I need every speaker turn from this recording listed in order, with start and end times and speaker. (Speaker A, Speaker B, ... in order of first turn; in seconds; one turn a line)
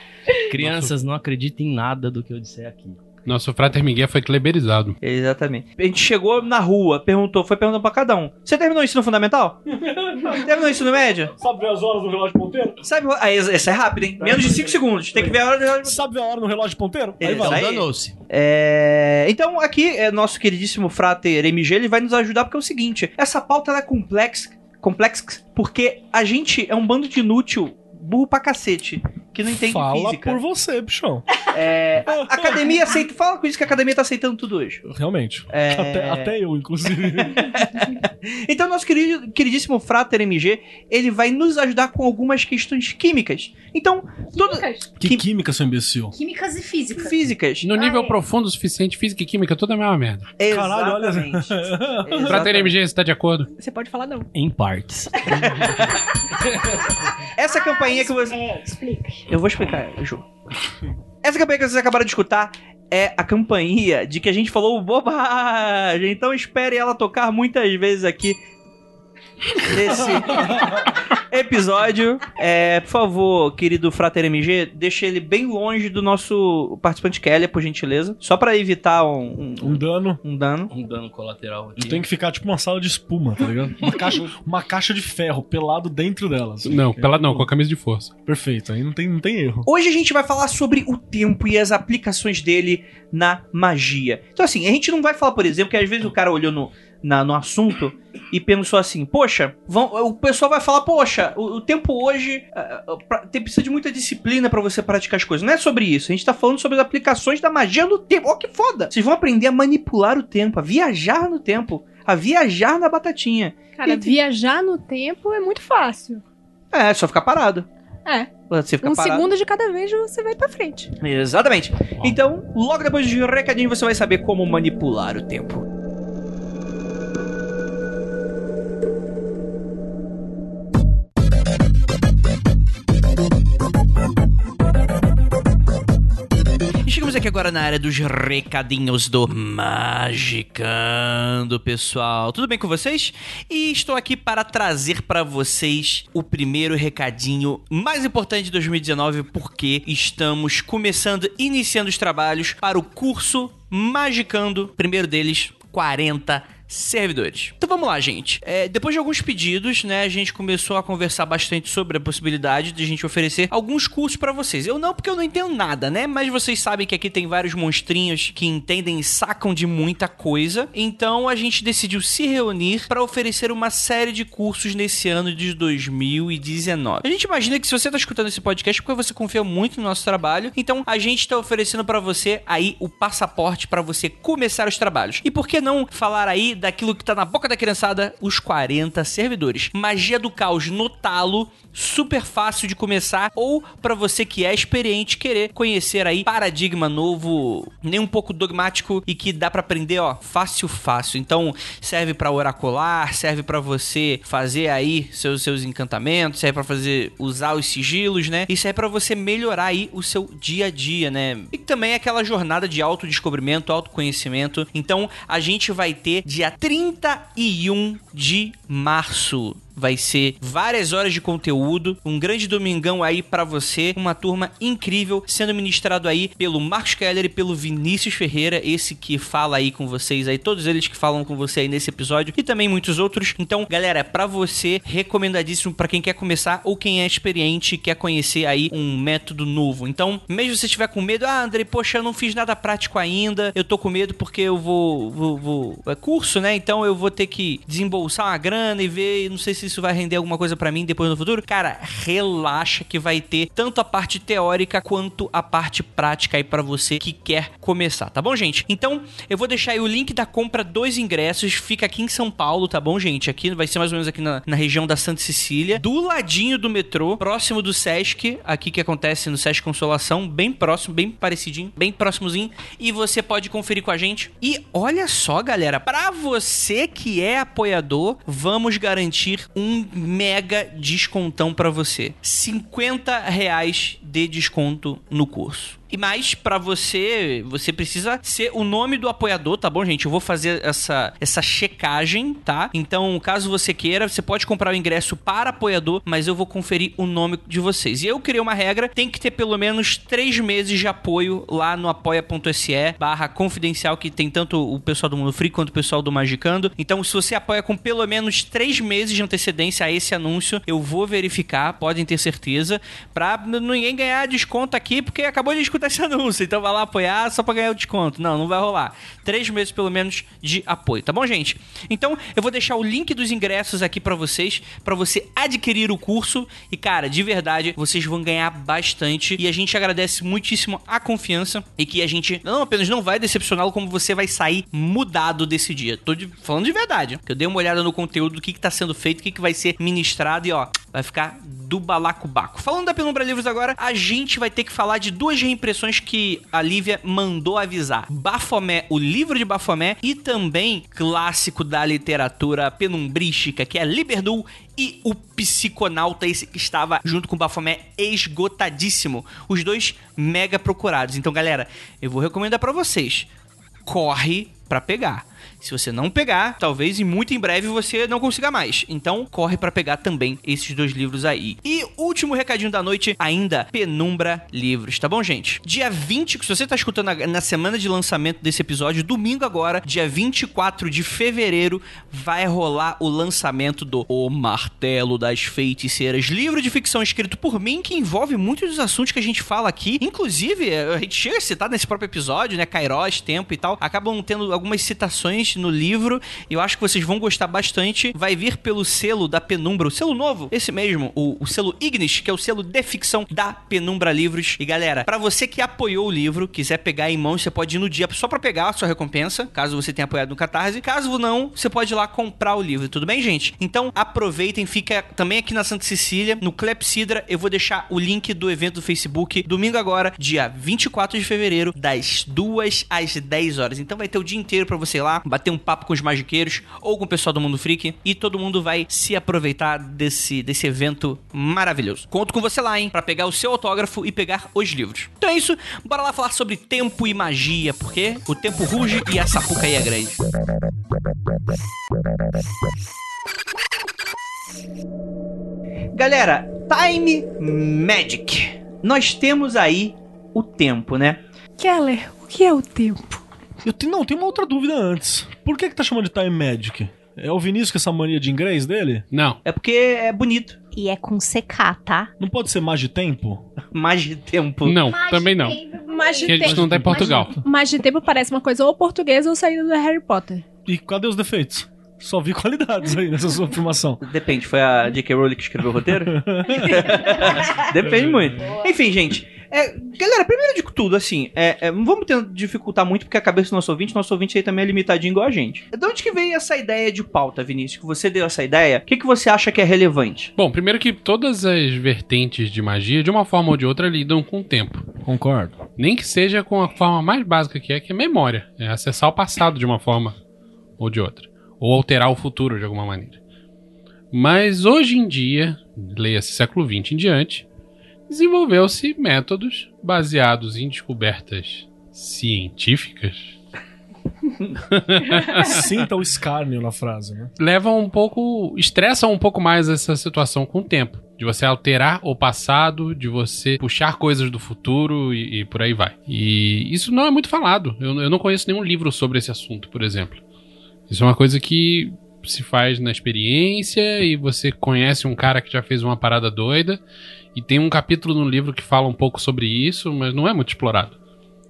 Speaker A: 0.4-3.0
Speaker B: 0.5-0.9
Speaker B: 3.3-5.0
Speaker C: 5.0-9.6
Speaker D: 9.7-12.8
Speaker C: 10.2-11.3
Speaker C: 12.8-16.0
Speaker D: 14.2-17.8
Speaker C: 17.2-30.4
Speaker A: 17.4-18.2
Speaker D: 29.5-31.4
Speaker C: 31.5-34.8
Speaker D: 32.0-32.8
Speaker D: 34.9-37.6
Speaker C: 35.5-36.3
Speaker C: 37.2-45.2
Speaker E: 44.3-45.0
Speaker D: 45.0-46.1
Speaker E: 46.1-47.2
Speaker C: 47.0-47.7
Speaker B: 47.6-50.3
Speaker E: 47.8-48.2
Speaker C: 50.4-52.8
Speaker D: 50.5-52.5
Speaker B: 52.3-53.5
Speaker F: 53.6-54.3
Speaker A: 54.3-55.6
Speaker C: 55.4-56.0
Speaker C: 57.4-58.4
Speaker E: 57.4-59.2
Speaker C: 59.3-60.2
Speaker C: 61.2-68.4
Speaker C: 69.6-80.7
Speaker D: 70.0-70.9
Speaker D: 79.6-80.2
Speaker A: 80.7-82.0
Speaker D: 81.8-87.5
Speaker B: 86.7-88.1
Speaker D: 88.3-89.7
Speaker C: 89.7-113.6
Speaker F: 113.8-116.2
Speaker C: 116.7-117.7
Speaker F: 118.1-120.9
Speaker C: 118.5-119.3
Speaker C: 121.0-125.6
Speaker C: 136.8-363.3
Speaker C: 363.9-440.2
Speaker C: 445.9-451.2
Speaker F: 451.6-453.2
Speaker D: 453.6-459.1
Speaker B: 459.1-459.4
Speaker C: 459.4-460.6
Speaker E: 460.7-462.1
Speaker D: 462.2-463.4
Speaker C: 463.7-464.8
Speaker B: 464.6-465.6
Speaker E: 464.8-466.4
Speaker F: 465.9-466.8
Speaker B: 466.2-467.3
Speaker D: 466.4-467.4
Speaker F: 467.3-470.4
Speaker D: 470.7-474.0
Speaker C: 474.0-490.3
Speaker D: 476.0-478.5
Speaker B: 490.4-494.9
Speaker D: 495.1-495.6
Speaker B: 495.8-500.2
Speaker B: 500.8-503.2
Speaker B: 504.1-507.5
Speaker B: 508.1-513.4
Speaker B: 514.7-515.6
Speaker D: 515.3-517.3
Speaker B: 517.4-530.2
Speaker B: 530.9-536.8
Speaker B: 537.3-541.0